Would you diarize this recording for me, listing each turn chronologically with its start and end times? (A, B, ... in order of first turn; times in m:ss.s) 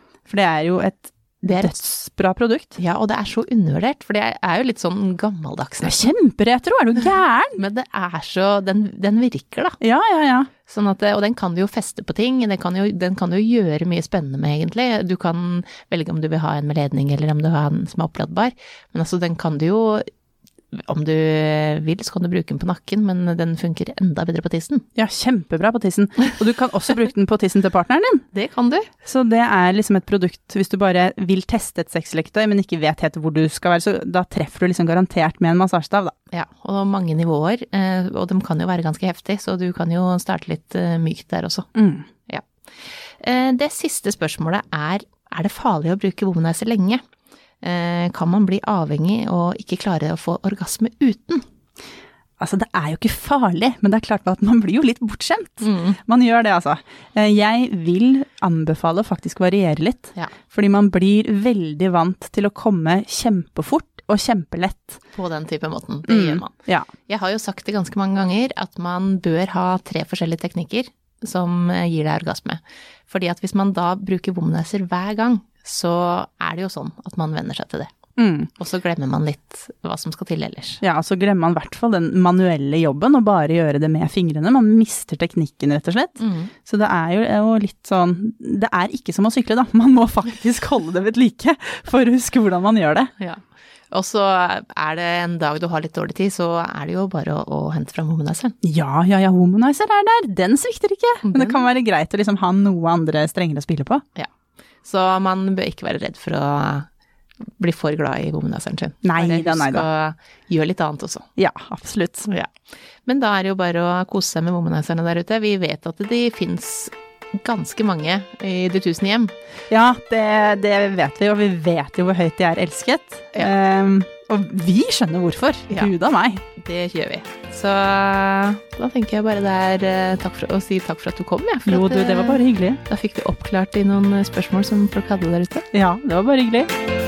0:00.3-0:02.8 A
0:01.5-0:01.8 B
0:02.8-0:06.1 B
0:05.8-0:07.6 A
0:07.6-0:09.8 B
0:09.8-0:10.5 A
0:10.7-0:20.0 B
0:20.7-0:24.8 B
0:25.0-0:28.2 A
0:28.3-0:28.9 B
0:29.0-0:36.1 A
0:36.3-0:41.7 B
0:41.8-0:42.1 A
0:43.2-0:47.0 B
0:47.6-0:51.4 B
0:52.4-1:05.0 A
0:55.6-0:56.0 B
1:05.1-1:06.5 B
1:06.1-1:06.9 A
1:07.1-1:17.9 B
1:18.2-1:18.5 A
1:18.6-1:20.8 B
1:20.8-1:33.1 A
1:26.2-1:26.5 B
1:33.2-1:38.6 B
1:38.6-1:44.0 A
1:41.2-1:41.7 B
1:44.8-1:46.9 B
1:47.6-1:51.3 B
1:49.0-1:49.9 A
1:51.4-1:52.3 A
1:53.0-1:59.3 B
1:59.7-2:06.4 A
2:06.6-2:15.7 B
2:11.7-2:12.8 A
2:15.7-2:16.7 A